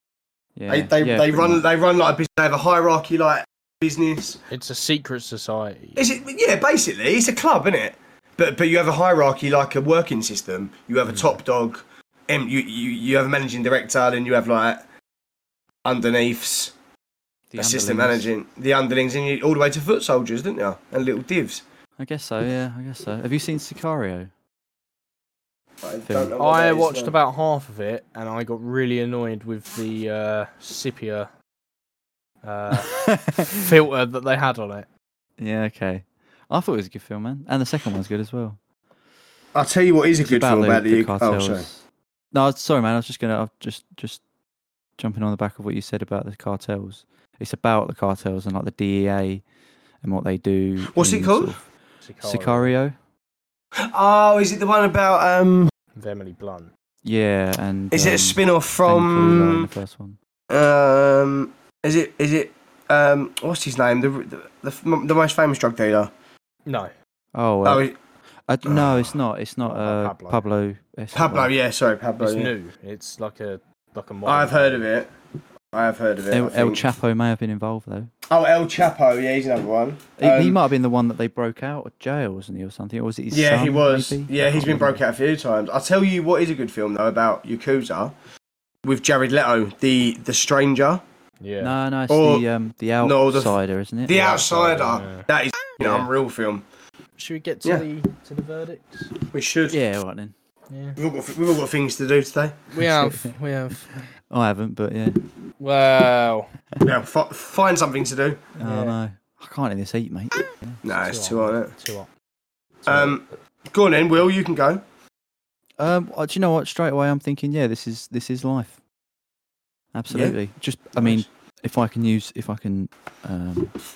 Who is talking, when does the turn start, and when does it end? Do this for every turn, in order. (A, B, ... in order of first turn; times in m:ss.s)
0:00.6-0:01.6 A
0:00.7-0:04.4 B
0:04.5-0:06.2 C
0:06.0-0:14.8 B
0:11.1-0:11.4 A
0:15.8-0:16.7 B
0:17.5-0:18.3 A
0:17.6-0:21.6 B
0:22.0-0:24.3 A
0:25.8-0:27.1 B
0:26.0-0:26.3 A
0:26.4-0:31.3 C
0:32.4-0:34.9 C
0:32.9-0:33.6 A
0:35.4-0:38.6 A
0:39.5-0:41.6 B
0:40.2-0:44.2 A
0:45.0-0:49.4 A
0:50.0-0:51.6 A
0:50.8-0:51.6 B
0:52.0-0:52.8 C
0:52.2-0:52.9 A
0:53.8-0:55.7 B
0:56.0-0:56.7 C
0:57.0-1:00.2 A
0:57.9-0:59.7 B
1:00.5-1:06.1 B
1:06.7-1:06.9 C
1:07.3-1:07.8 A
1:07.6-1:08.0 B
1:08.5-1:11.5 A
1:08.6-1:09.1 B
1:09.6-1:10.4 C
1:11.1-1:12.5 B
1:12.2-1:14.8 C
1:14.2-1:15.1 B
1:15.7-1:16.8 B
1:16.3-1:18.1 A
1:18.3-1:20.6 B
1:20.2-1:25.0 A
1:23.3-1:28.1 B
1:28.8-1:31.0 B
1:31.4-1:31.7 C
1:31.6-1:34.6 A
1:32.1-1:32.4 B
1:33.0-1:36.6 B
1:34.4-1:35.2 C
1:35.8-1:36.1 C
1:37.2-1:39.1 C
1:39.3-1:39.8 B
1:39.7-1:40.3 A
1:40.7-1:41.0 C
1:41.0-1:42.6 B
1:42.7-1:44.0 C
1:42.8-1:43.3 A
1:44.3-1:45.2 A
1:45.6-1:46.5 C
1:46.8-1:48.4 B
1:48.6-1:49.0 C
1:48.6-1:50.8 A
1:50.8-1:51.7 B
1:50.9-1:52.1 C
1:52.8-1:53.2 C
1:52.8-1:54.8 B
1:55.8-1:58.8 A
1:59.9-2:03.7 A
2:00.1-2:00.4 B
2:01.0-2:01.2 B